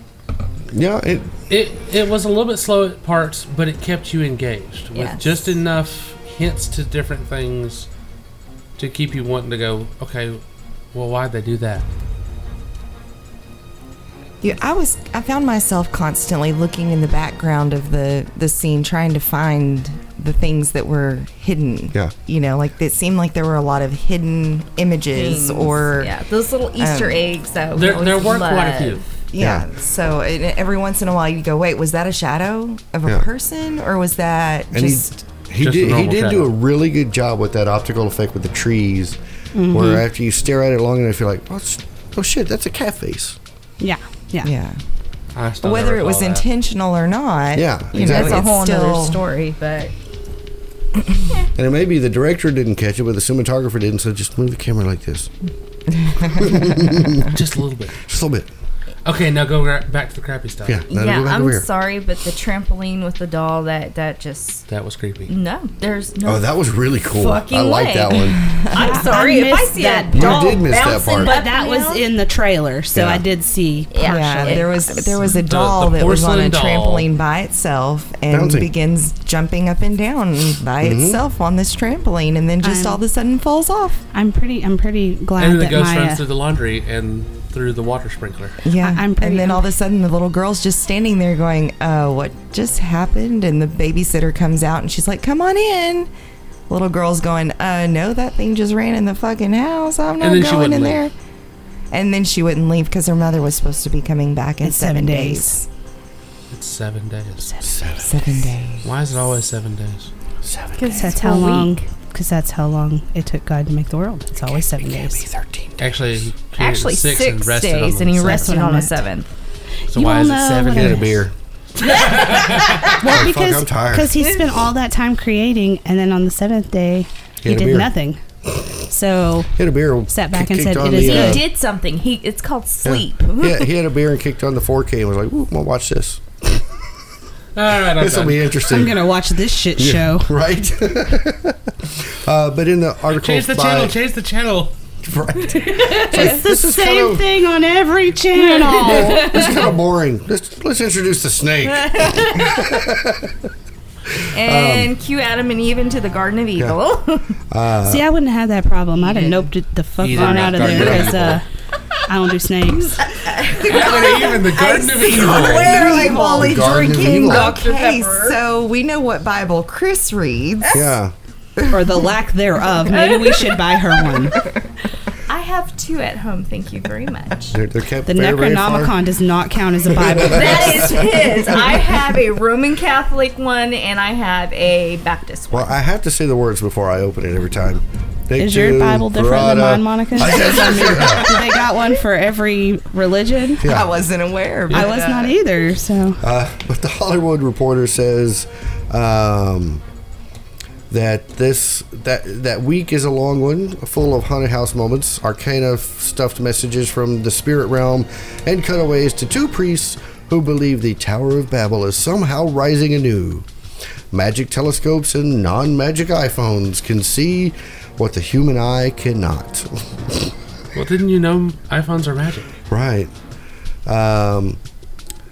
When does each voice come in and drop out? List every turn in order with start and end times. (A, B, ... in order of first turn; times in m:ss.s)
0:00.7-0:01.3 A
0:01.5-0:07.9 B
0:04.9-0:05.2 C
0:08.8-0:10.4 B
0:10.9-0:11.9 B
0:14.4-0:26.2 D
0:25.2-0:29.1 C
0:26.8-0:27.2 D
0:27.8-0:29.0 B
0:29.3-0:35.2 D
0:29.4-0:29.6 A
0:34.7-0:39.2 A
0:35.6-0:36.5 B
0:39.5-0:40.0 E
0:39.7-0:43.4 A
0:43.8-0:44.5 E
0:44.4-0:44.8 D
0:45.4-0:46.5 B
0:45.6-0:49.2 D
0:47.5-0:48.5 A
0:48.0-0:49.9 C
0:51.6-0:55.3 A
0:56.0-0:56.7 D
0:56.3-0:57.4 A
0:57.3-0:58.0 B
0:58.0-0:58.5 A
0:59.0-1:00.8 B
1:00.7-1:01.7 A
1:00.9-1:04.6 C
1:04.7-1:05.3 B
1:05.3-1:06.4 C
1:06.2-1:08.4 A
1:07.2-1:12.0 C
1:08.8-1:14.7 E
1:10.1-1:11.4 A
1:12.9-1:13.2 A
1:13.9-1:14.8 C
1:14.0-1:24.0 D
1:15.4-1:17.1 B
1:18.3-1:18.7 A
1:20.8-1:21.2 A
1:22.6-1:23.0 E
1:24.1-1:26.2 E
1:25.4-1:28.6 B
1:28.6-1:36.1 D
1:28.8-1:29.7 E
1:36.7-1:41.1 D
1:40.2-1:41.0 B
1:41.9-1:45.7 D
1:44.6-1:45.6 E
1:46.5-1:47.5 B
1:47.6-1:48.5 A
1:48.0-1:48.9 D
1:48.8-1:50.1 B
1:50.4-1:51.0 A
1:50.8-1:51.8 C
1:51.0-1:55.3 E
1:54.7-1:55.9 A
1:55.8-1:58.4 B
1:56.6-1:59.3 C
1:58.2-1:59.0 E
1:59.9-2:01.2 E
1:59.9-2:01.3 B
2:00.7-2:01.3 A
2:01.8-2:02.8 B
2:02.9-2:08.2 E
2:03.0-2:04.1 A
2:07.4-2:07.9 A
2:08.9-2:09.6 E
2:09.6-2:11.4 A
2:10.1-2:11.4 E
2:11.1-2:13.6 C
2:12.8-2:16.6 A
2:17.6-2:18.6 B
2:18.0-2:19.1 A
2:18.7-2:20.4 E
2:19.8-2:24.0 A
2:23.1-2:24.7 B
2:25.0-2:27.3 A
2:26.1-2:29.4 E
2:28.5-2:29.5 C
2:29.1-2:33.3 A
2:31.9-2:32.5 C
2:34.4-2:34.9 A
2:34.4-2:37.2 C
2:37.5-2:38.1 A
2:37.8-2:41.4 E
2:39.1-2:39.4 C
2:40.0-2:41.4 B
2:40.0-2:41.4 A
2:42.1-2:43.0 E
2:43.5-2:48.4 C
2:43.6-2:45.8 B
2:45.2-2:50.9 D
2:46.0-2:47.6 A
2:50.7-2:51.1 A
2:51.7-2:54.4 E
2:55.3-2:57.5 C
2:57.5-2:59.0 A
2:58.1-3:00.6 E
3:00.0-3:00.8 A
3:00.3-3:05.6 C
3:05.5-3:11.4 A
3:08.4-3:13.6 E
3:13.6-3:13.9 A
3:13.6-3:15.3 D
3:14.7-3:16.2 E
3:16.2-3:19.8 A
3:20.9-3:33.5 A
3:34.1-3:40.3 A
3:40.7-3:42.6 B
3:42.7-3:43.1 A
3:43.9-3:44.6 A